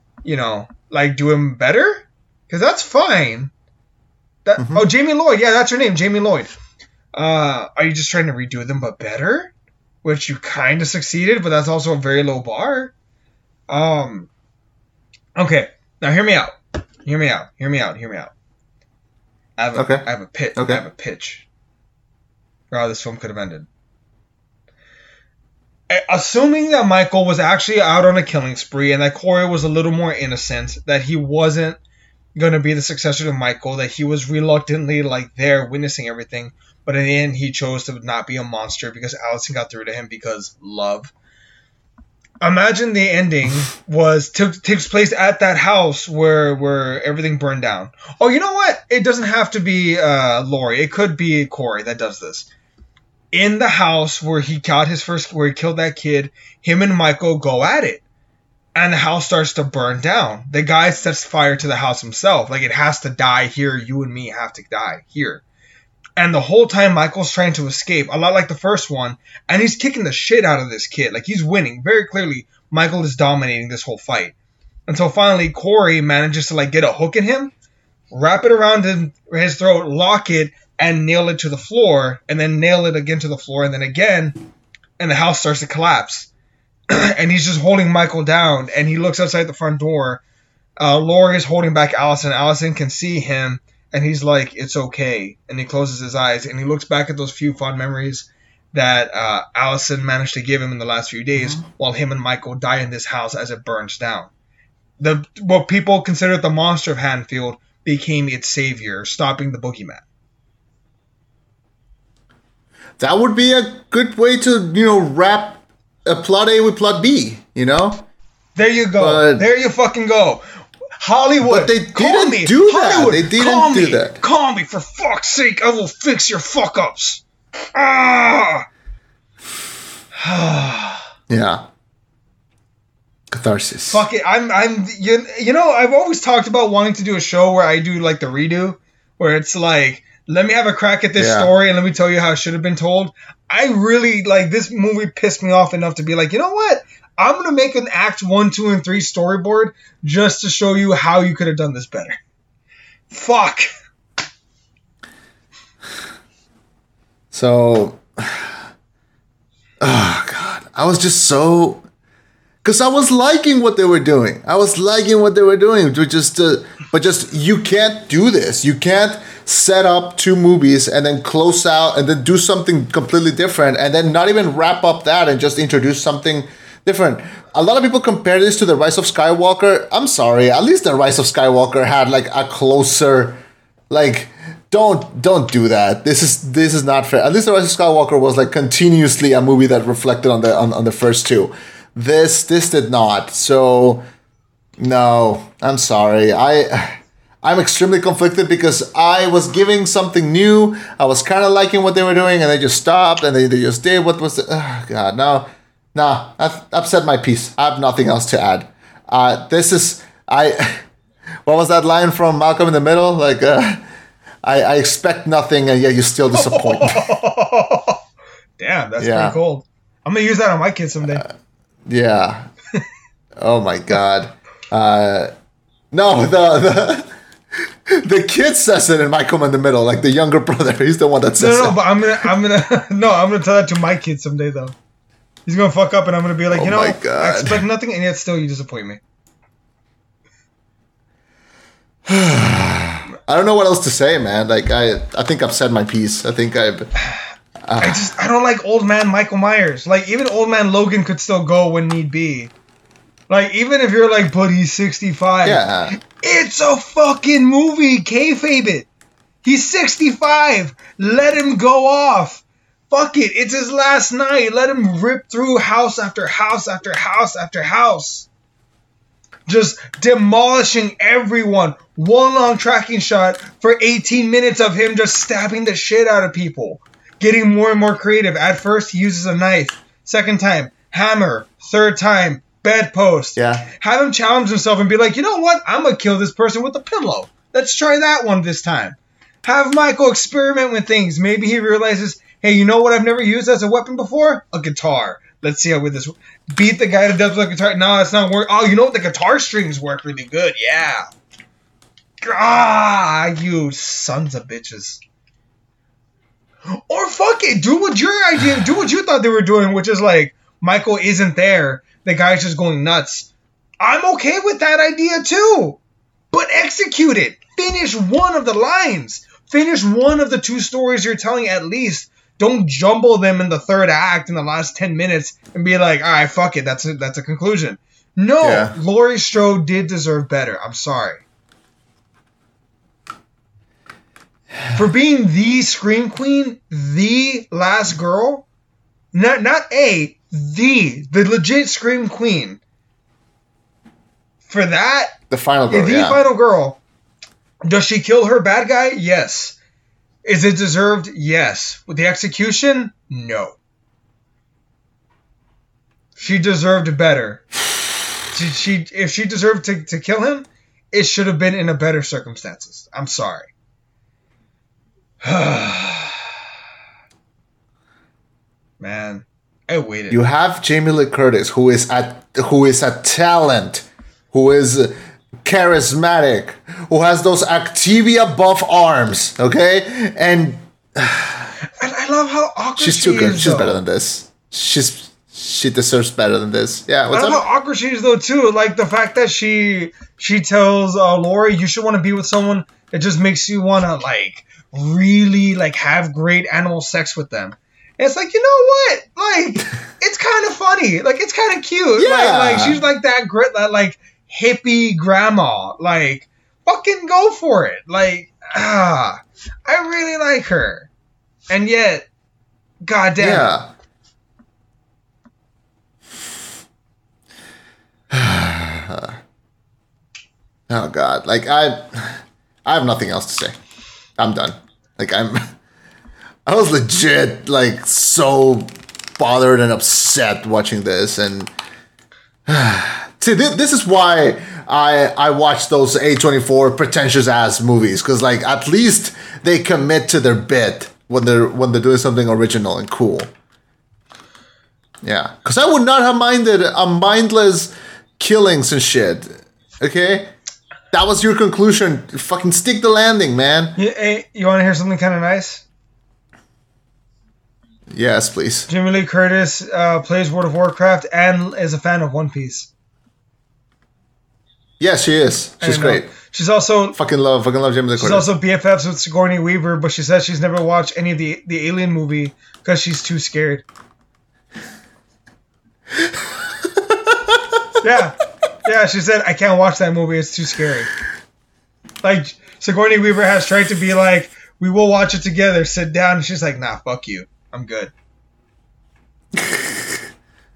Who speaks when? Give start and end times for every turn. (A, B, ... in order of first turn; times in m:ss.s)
0:00.2-0:03.5 A
0:04.4-0:06.5 A
0:04.6-0:04.8 B
0:07.1-0:09.5 A
0:10.0-0:12.9 A
0:13.7-0:14.3 A
0:15.4-0:18.3 A
0:19.6-0:21.4 A
0:19.7-0:20.8 B
0:22.7-0:23.7 A
0:25.9-0:31.8 A
0:32.3-0:41.1 A
0:42.4-0:52.5 A
0:53.3-0:58.0 A
0:58.7-1:05.4 A
1:06.2-1:14.3 A
1:14.9-1:17.5 A
1:18.1-1:24.4 A
1:25.0-1:26.3 A
1:26.9-1:30.2 A
1:30.8-1:44.3 A
1:41.4-1:41.6 B
1:45.0-1:50.0 A
1:53.0-1:58.0 B
1:58.6-2:00.4 A
1:59.0-1:59.5 B
2:01.0-2:07.2 A
2:01.4-2:04.2 B
2:07.7-2:08.7 A
2:10.2-2:11.0 A
2:11.3-2:11.6 B
2:13.3-2:14.0 B
2:13.9-2:32.2 A
2:21.2-2:21.5 B
2:33.1-2:33.7 A
2:37.3-2:38.6 B
2:39.8-2:41.8 B
2:42.6-3:14.0 B
3:14.8-3:30.8 B
3:31.4-3:33.8 B
3:34.4-3:37.1 B
3:36.3-3:38.0 A
3:38.6-3:41.2 A
3:39.0-3:39.4 B
3:41.0-3:41.3 B
3:41.8-3:42.5 B
3:43.4-3:45.3 B
3:45.9-3:47.1 B
3:47.9-3:51.8 B
3:51.4-3:54.7 A
3:55.4-3:59.0 A
3:56.5-3:57.6 B
4:02.1-4:06.9 B
4:07.6-4:08.1 B
4:07.8-4:12.5 A
4:13.3-4:18.9 A
4:15.4-4:16.0 B
4:19.4-4:28.3 A
4:29.5-5:01.1 A
4:43.4-4:43.7 B
5:02.2-5:05.0 A
5:06.7-5:15.8 A
5:16.3-5:31.2 A
5:28.4-5:28.8 B
5:34.7-5:38.4 A
5:39.1-5:42.6 A
5:44.5-5:45.2 A
5:45.3-5:46.2 B
5:45.7-5:46.8 A
5:47.6-5:49.6 A
5:50.2-5:53.6 A
5:56.2-5:57.4 A
5:58.3-6:03.5 A
6:05.2-6:06.2 A
6:08.8-6:10.2 A
6:10.1-6:21.5 B
6:21.8-6:23.8 A
6:22.8-6:27.4 B
6:27.1-6:50.9 A
6:42.0-6:42.8 B
6:51.5-6:52.1 A
6:52.8-6:53.5 A
6:53.2-6:53.7 B
6:58.1-6:59.2 B
7:00.7-7:03.6 B
7:04.2-7:05.5 B
7:06.4-7:11.5 B
7:12.5-7:23.3 B
7:25.0-7:30.3 B
7:30.9-7:33.8 B
7:33.8-7:35.6 A
7:37.9-7:38.7 B
7:38.7-7:42.7 A
7:44.8-7:46.1 B
7:45.6-7:47.0 A
7:46.9-7:48.3 B
7:48.0-7:53.6 A
7:56.8-7:57.3 B
7:57.8-8:00.9 A
8:02.0-8:07.9 A
8:09.3-8:10.0 B